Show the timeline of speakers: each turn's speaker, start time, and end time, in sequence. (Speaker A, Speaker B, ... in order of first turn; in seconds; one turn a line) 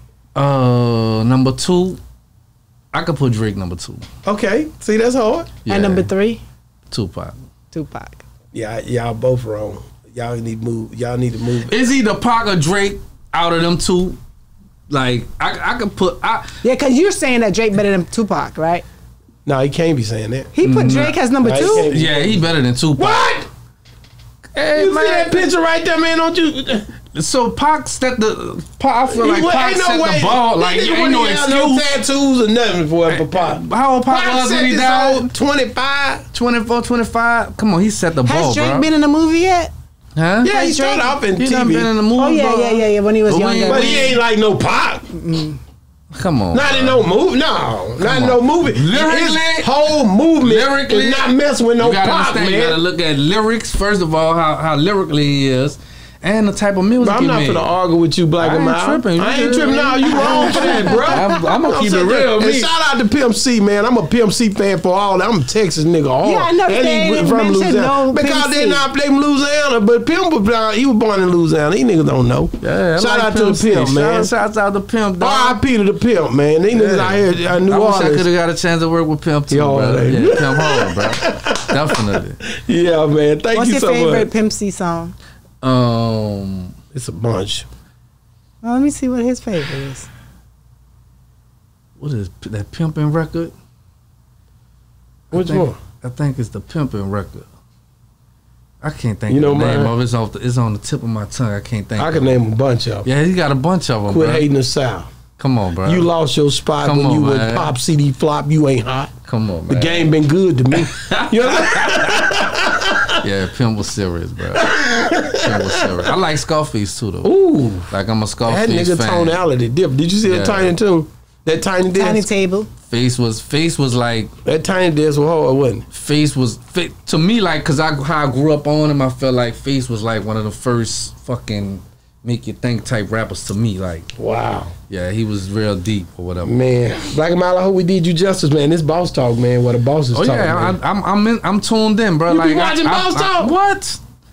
Speaker A: 0.3-2.0
Speaker A: 2.9-4.0
Speaker B: 4.2-5.5
Speaker A: 5.6-6.1
Speaker C: 5.7-6.4
Speaker A: 6.9-7.3
Speaker C: 7.7-8.2
Speaker B: 8.5-11.8
Speaker A: 11.7-14.2
Speaker A: 14.9-16.6
Speaker C: 16.6-18.8
Speaker B: 19.4-20.5
Speaker C: 20.5-21.9
Speaker A: 20.6-23.3
Speaker B: 21.4-23.5
Speaker A: 24.5-25.5
Speaker B: 24.7-26.9
Speaker A: 27.1-31.9
Speaker B: 29.1-36.2
Speaker A: 33.1-35.3
Speaker A: 36.3-38.9
Speaker C: 38.2-39.7
Speaker A: 40.1-40.5
Speaker B: 40.4-41.9
Speaker C: 40.5-41.1
Speaker A: 41.3-44.2
Speaker C: 42.1-44.2
Speaker B: 43.6-45.1
Speaker C: 45.1-45.6
Speaker A: 46.1-47.0
Speaker B: 46.5-52.8
Speaker A: 48.0-57.7
Speaker B: 57.0-74.3
Speaker A: 58.4-62.7
Speaker C: 60.1-61.5
Speaker C: 66.2-68.8
Speaker A: 72.6-75.6
Speaker B: 75.2-78.2
Speaker A: 76.7-82.4
Speaker B: 79.5-84.3
Speaker C: 83.5-85.1
Speaker A: 85.6-86.7
Speaker B: 86.9-87.7
Speaker C: 88.6-90.1
Speaker A: 92.0-93.5
Speaker A: 95.3-97.5
Speaker B: 95.3-95.8
Speaker A: 98.8-102.4
Speaker B: 99.3-99.9
Speaker B: 102.0-103.1
Speaker A: 103.0-104.5
Speaker B: 104.1-105.1
Speaker A: 105.4-106.1
Speaker B: 105.8-109.1
Speaker A: 106.8-107.7
Speaker A: 109.3-110.1
Speaker B: 109.7-113.2
Speaker A: 110.7-112.5
Speaker A: 113.2-117.3
Speaker B: 114.5-116.1
Speaker B: 117.2-117.9
Speaker A: 117.9-119.4
Speaker B: 118.4-122.3
Speaker A: 120.2-120.7
Speaker C: 121.9-122.7
Speaker A: 122.8-124.3
Speaker B: 124.4-125.8
Speaker A: 125.9-134.1
Speaker B: 134.2-134.7
Speaker A: 134.9-136.6
Speaker B: 136.4-140.8
Speaker A: 140.1-144.0
Speaker B: 142.3-143.5